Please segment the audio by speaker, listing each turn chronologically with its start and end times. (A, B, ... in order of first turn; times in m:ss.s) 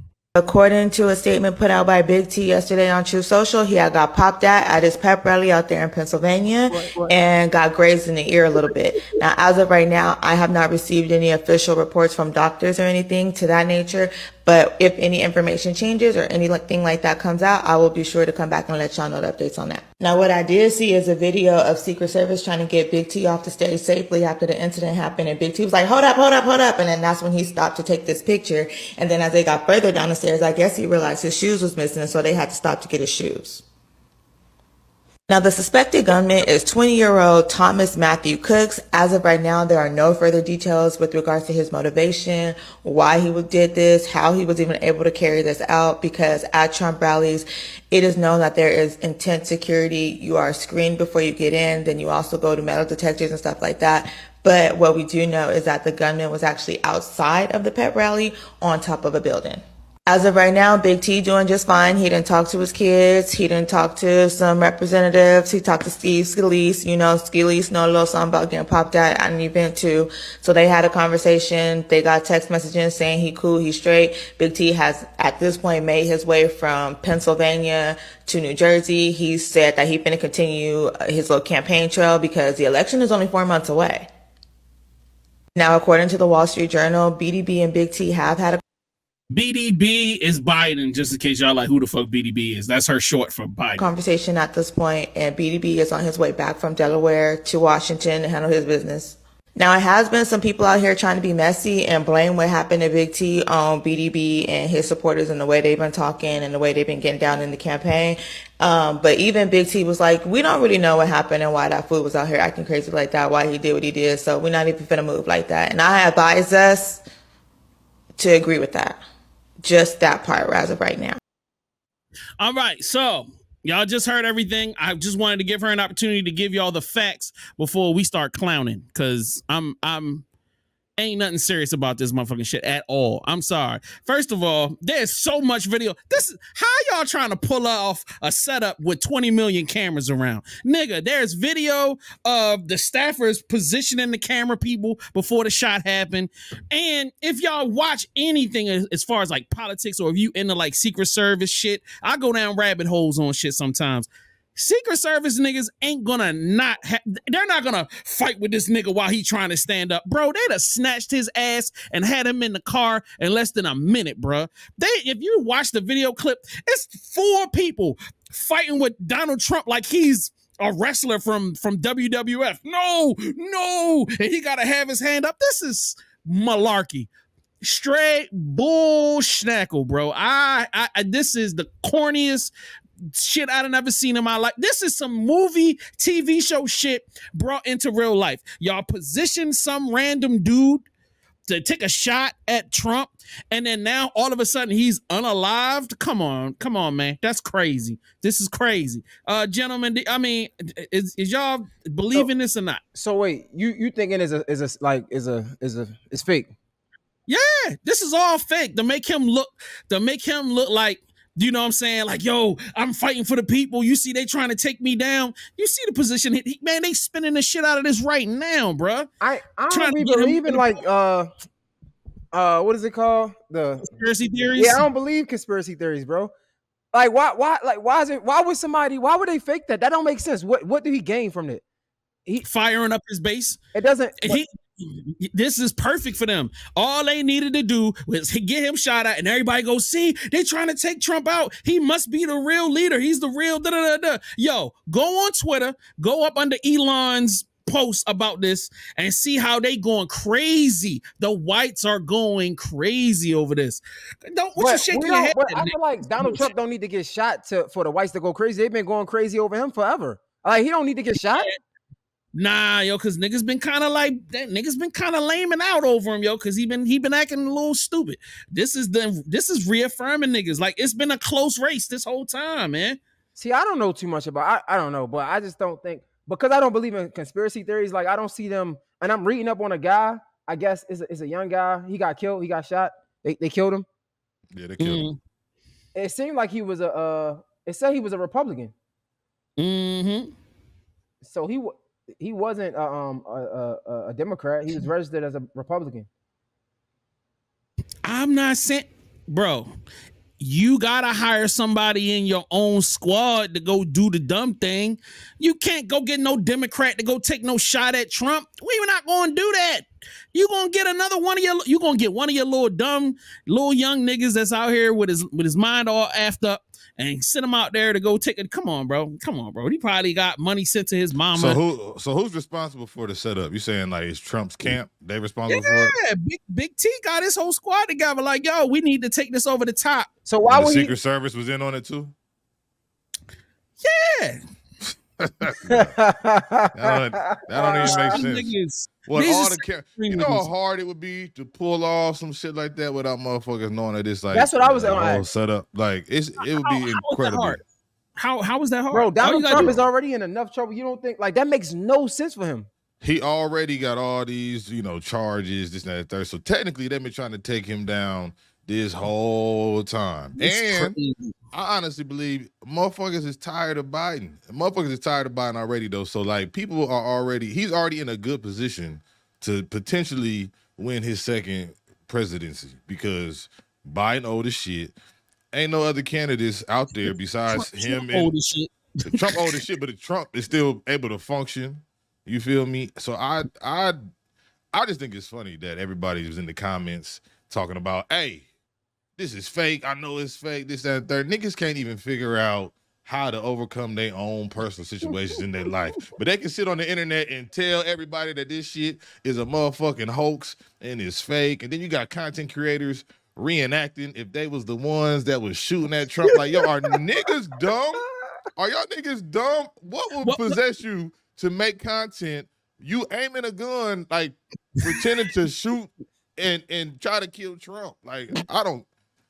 0:00.4-0:33.6 A
0:06.7-0:07.2 B
0:35.3-1:24.1 A
1:25.6-1:28.6 A
1:29.3-1:33.9 C
1:33.8-1:57.0 A
1:58.2-1:59.0 A
1:59.6-2:01.2 A
2:02.4-2:10.2 C
2:11.0-2:57.1 C
2:57.6-3:02.5 C
3:03.1-3:10.8 C
3:11.5-3:22.8 C
3:22.9-3:26.5 B
3:27.3-3:39.1 C
3:39.2-3:41.3 B
3:39.7-3:40.8 C
3:42.3-3:43.9 B
3:43.8-3:44.8 C
3:44.6-3:46.3 B
3:46.9-3:51.6 B
3:52.4-3:53.6 C
3:53.7-3:54.4 B
3:54.2-4:16.5 C
4:14.6-4:21.5 B
4:22.4-4:33.0 C
4:33.4-4:43.9 B
4:44.5-4:45.0 D
4:44.8-4:45.2 C
4:45.9-4:48.7 B
4:49.6-4:50.3 C
4:51.2-4:56.1 B
4:58.0-4:59.7 C
5:00.4-5:21.6 C
5:21.3-5:25.9 D
5:25.5-5:30.1 C
5:30.3-5:30.9 B
5:30.5-5:32.1 D
5:33.8-5:34.4 C
5:35.2-5:36.0 D
5:35.7-5:38.2 B
5:36.7-5:38.5 D
5:37.8-5:40.5 C
5:39.1-5:47.6 D
5:44.3-5:45.2 B
5:46.5-5:47.6 C
5:48.2-5:49.7 C
5:48.9-5:52.7 B
5:53.0-6:00.9 D
6:00.4-6:01.3 C
6:01.5-6:14.9 D
6:15.5-6:18.3 D
6:17.5-6:19.6 C
6:19.1-6:24.0 D
6:24.7-6:28.5 D
6:29.2-6:48.0 D
6:48.6-6:58.9 D
6:50.2-6:50.6 C
6:54.8-6:55.1 C